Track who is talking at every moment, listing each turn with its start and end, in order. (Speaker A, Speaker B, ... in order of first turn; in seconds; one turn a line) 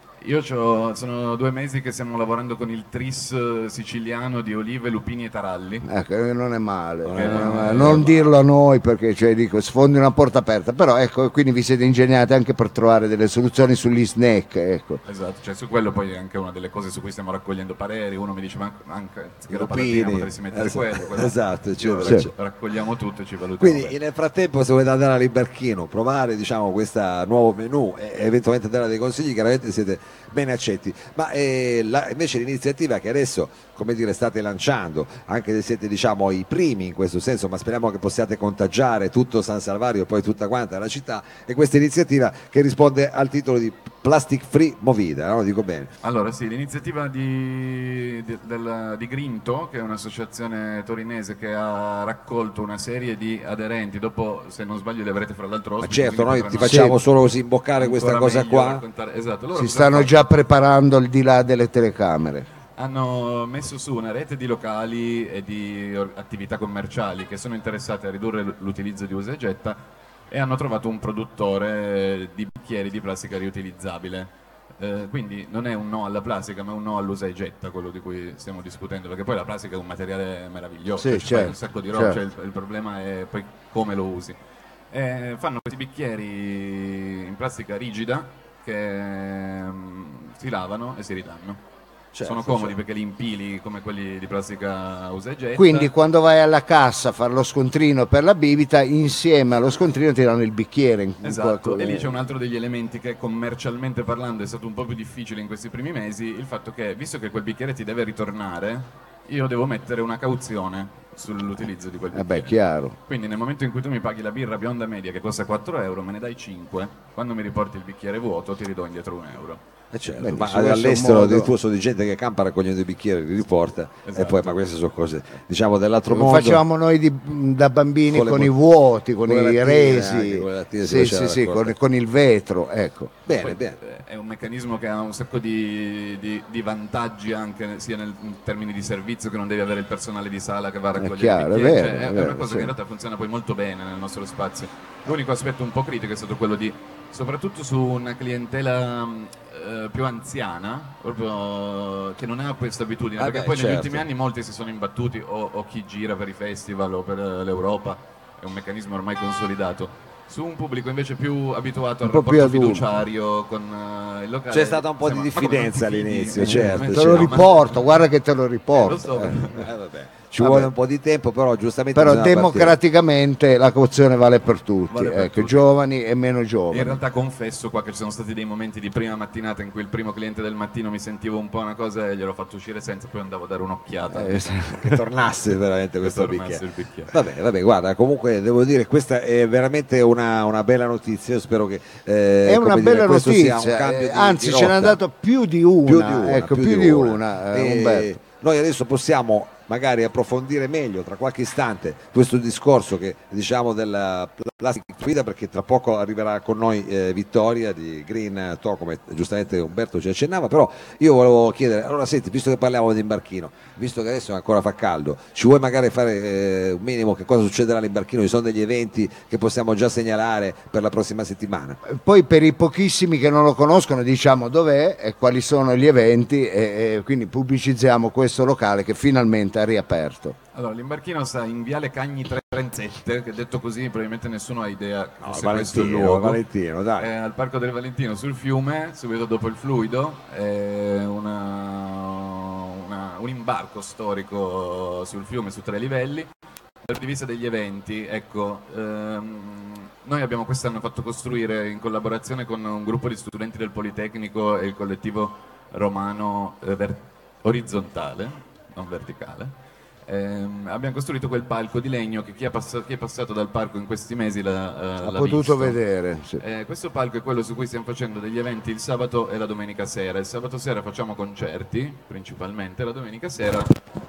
Speaker A: 0.2-5.9
Speaker B: 5.8-15.0
Speaker C: 7.0-8.1
Speaker A: 7.1-8.3
Speaker A: 15.1-24.0
Speaker C: 19.5-22.3
Speaker C: 23.6-45.9
Speaker A: 46.0-57.0
Speaker C: 55.8-58.8
Speaker B: 56.6-57.0
Speaker A: 57.8-60.2
Speaker B: 59.5-62.5
Speaker A: 62.8-69.8
Speaker A: 70.3-84.3
Speaker B: 81.0-82.2
Speaker A: 84.9-91.6
Speaker C: 92.1-92.8
Speaker A: 92.2-95.9
Speaker B: 95.6-102.1
Speaker A: 101.2-119.6
Speaker B: 112.1-113.0
Speaker C: 119.9-126.6
Speaker B: 120.2-121.5
Speaker A: 124.0-124.6
Speaker B: 126.1-133.1
Speaker C: 128.1-128.6
Speaker C: 129.2-131.8
Speaker C: 133.2-133.8
Speaker A: 133.4-167.8
Speaker B: 141.0-142.7
Speaker C: 153.2-154.1
Speaker B: 162.0-162.9
Speaker C: 164.5-167.6
Speaker B: 166.4-169.4
Speaker A: 168.7-169.7
Speaker C: 169.1-172.8
Speaker B: 170.4-170.7
Speaker B: 171.9-177.0
Speaker A: 174.9-175.7
Speaker A: 176.7-184.5
Speaker B: 184.1-185.0
Speaker C: 184.8-195.0
Speaker A: 186.0-187.1
Speaker B: 192.4-198.1
Speaker C: 195.9-221.8
Speaker B: 221.9-230.3
Speaker A: 230.5-236.4
Speaker C: 235.2-237.1
Speaker A: 237.0-246.3
Speaker A: 246.8-259.5
Speaker A: 260.1-265.8
Speaker B: 265.0-266.4
Speaker A: 266.4-273.8